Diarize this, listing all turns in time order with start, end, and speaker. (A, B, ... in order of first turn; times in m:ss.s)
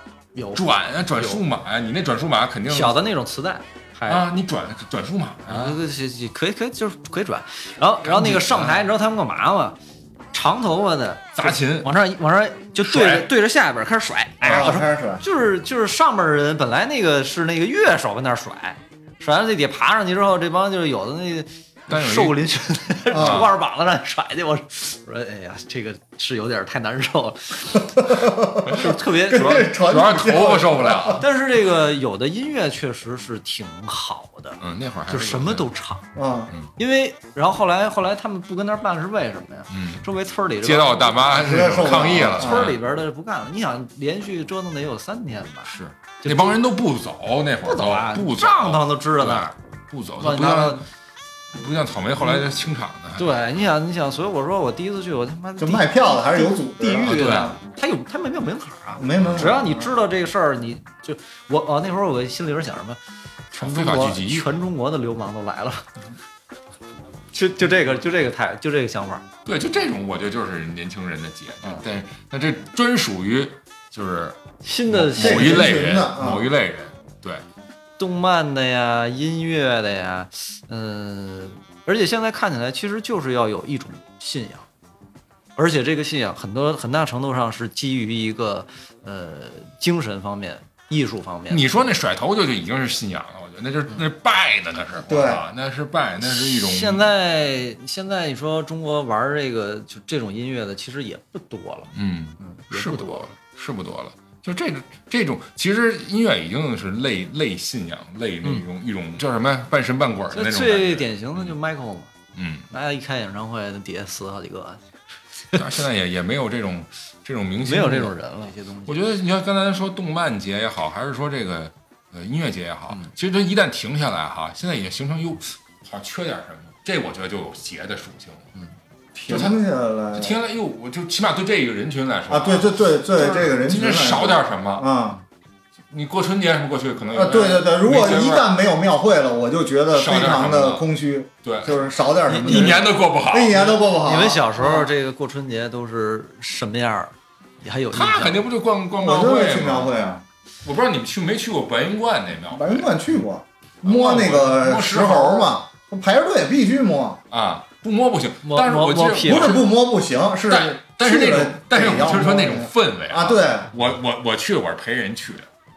0:00.3-0:01.4 A
0:00.5-0:03.0 B
0:02.7-0:04.2 A
0:04.1-0:05.8 B
0:05.5-0:09.8 A
0:08.0-0:08.8 B
0:10.3-0:28.1 A
0:11.4-0:11.9 B
0:12.8-0:13.3 B
0:14.4-0:14.8 B
0:14.4-0:15.2 C
0:21.9-0:22.5 B
0:23.1-0:23.5 C
0:23.1-0:23.5 B
0:28.0-0:31.2 C
0:28.6-0:29.7 A
0:28.7-0:31.2 B
0:31.2-0:36.1 A
0:34.6-0:35.7 B
0:36.2-0:36.5 C
0:36.8-0:41.3 A
0:39.7-0:40.0 B
0:40.6-0:42.8 B
0:41.4-0:42.7 C
0:42.2-0:45.7 A
0:45.7-0:50.8 B
0:46.2-0:46.6 A
0:47.6-0:49.5 A
0:50.2-0:50.8 A
0:51.5-0:53.3 B
0:53.2-1:03.0 A
0:55.6-0:57.5 C
0:57.0-0:57.6 B
0:59.0-0:59.9 C
0:59.2-0:59.5 B
1:03.5-1:04.6 B
1:03.5-1:05.9 A
1:07.3-1:09.3 A
1:09.4-1:17.4 B
1:14.6-1:15.7 A
1:15.1-1:16.5 C
1:18.0-1:24.6 A
1:25.6-1:31.6 A
1:31.5-1:37.1 B
1:35.1-1:35.4 C
1:36.2-1:43.3 A
1:41.9-1:51.6 B
1:50.3-1:52.1 A
1:52.4-1:52.7 B
1:52.7-1:54.8 A
1:55.6-1:58.2 B
1:57.6-1:58.9 A
1:58.8-2:08.5 B
2:09.2-2:10.4 C
2:09.3-2:09.6 B
2:10.1-2:14.9 B
2:12.3-2:15.2 C
2:15.9-2:18.5 B
2:17.1-2:24.9 C
2:19.9-2:20.9 B
2:21.4-2:23.8 B
2:24.0-2:28.4 A
2:27.9-2:29.9 B
2:29.0-2:30.2 C
2:30.6-2:32.9 B
2:32.5-2:37.2 C
2:33.8-2:35.5 B
2:37.3-2:39.7 B
2:38.4-2:39.6 A
2:39.2-2:43.7 C
2:40.5-2:45.5 B